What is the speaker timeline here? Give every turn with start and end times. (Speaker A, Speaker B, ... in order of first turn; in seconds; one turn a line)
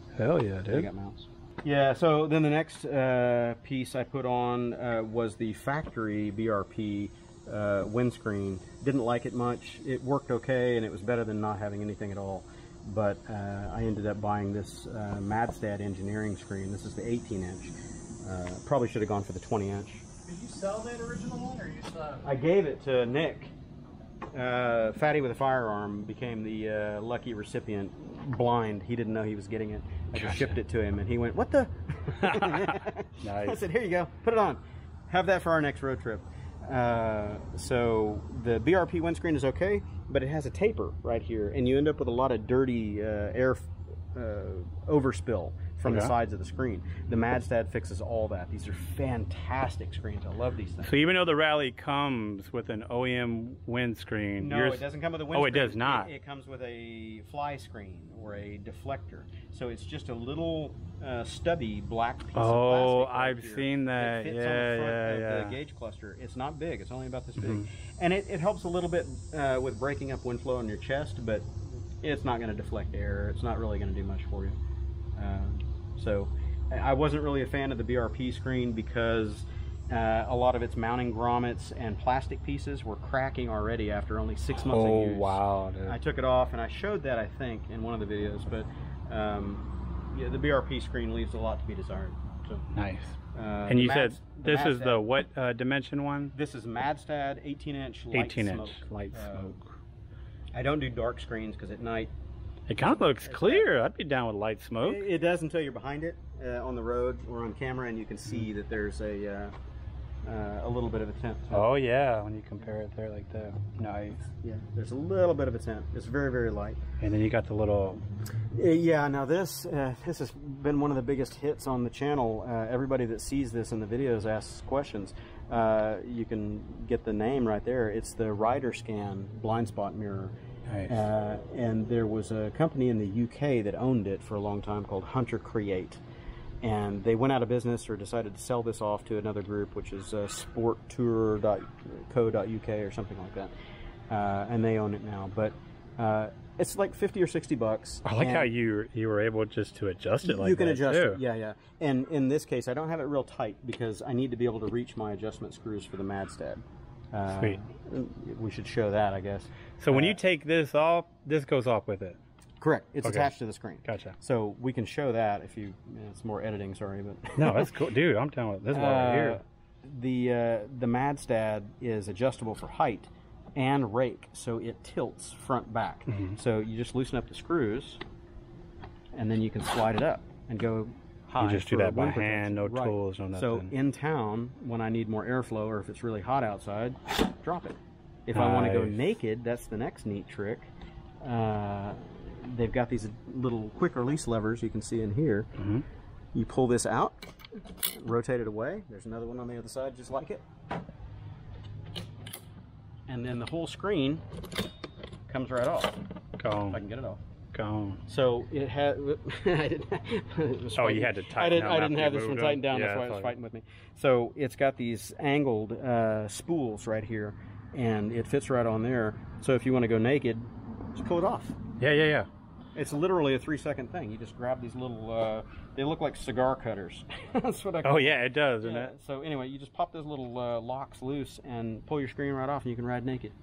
Speaker A: 0.2-0.9
Speaker B: 0.7-20.0
Speaker C: 20.3-22.2
Speaker B: 22.2-23.5
Speaker B: 24.3-50.9
Speaker A: 30.1-30.6
Speaker A: 32.1-33.6
Speaker A: 45.9-46.1
Speaker A: 50.8-56.1
Speaker B: 54.4-74.6
Speaker A: 62.4-65.6
Speaker A: 67.4-67.7
Speaker B: 75.2-92.7
Speaker A: 84.7-86.0
Speaker A: 92.8-93.2
Speaker B: 93.3-95.1
Speaker A: 93.7-96.3
Speaker B: 96.3-99.5
Speaker A: 98.1-99.7
Speaker B: 100.5-102.1
Speaker A: 102.7-105.0
Speaker B: 103.2-103.7
Speaker B: 104.8-109.5
Speaker B: 110.2-111.7
Speaker A: 111.5-114.3
Speaker B: 114.4-116.8
Speaker A: 117.0-118.0
Speaker B: 118.5-130.3
Speaker A: 130.7-131.0
Speaker B: 130.9-136.0
Speaker B: 136.6-143.5
Speaker B: 144.1-148.5
Speaker A: 148.1-151.2
Speaker B: 150.2-156.6
Speaker B: 157.1-160.2
Speaker A: 157.3-157.6
Speaker A: 159.8-162.2
Speaker B: 162.6-167.7
Speaker A: 163.0-163.3
Speaker A: 163.8-164.2
Speaker A: 167.4-169.4
Speaker B: 168.7-178.0
Speaker A: 176.1-176.4
Speaker B: 179.1-190.7
Speaker A: 181.4-183.7
Speaker A: 188.3-189.0
Speaker B: 191.2-195.5
Speaker A: 195.6-195.8
Speaker B: 196.3-200.4
Speaker B: 203.1-204.2
Speaker B: 205.3-206.0
Speaker A: 206.4-206.8
Speaker B: 206.7-207.2
Speaker A: 207.5-208.0
Speaker B: 208.1-221.6
Speaker A: 210.8-213.3
Speaker A: 221.8-222.3
Speaker B: 222.8-233.3
Speaker A: 227.8-228.9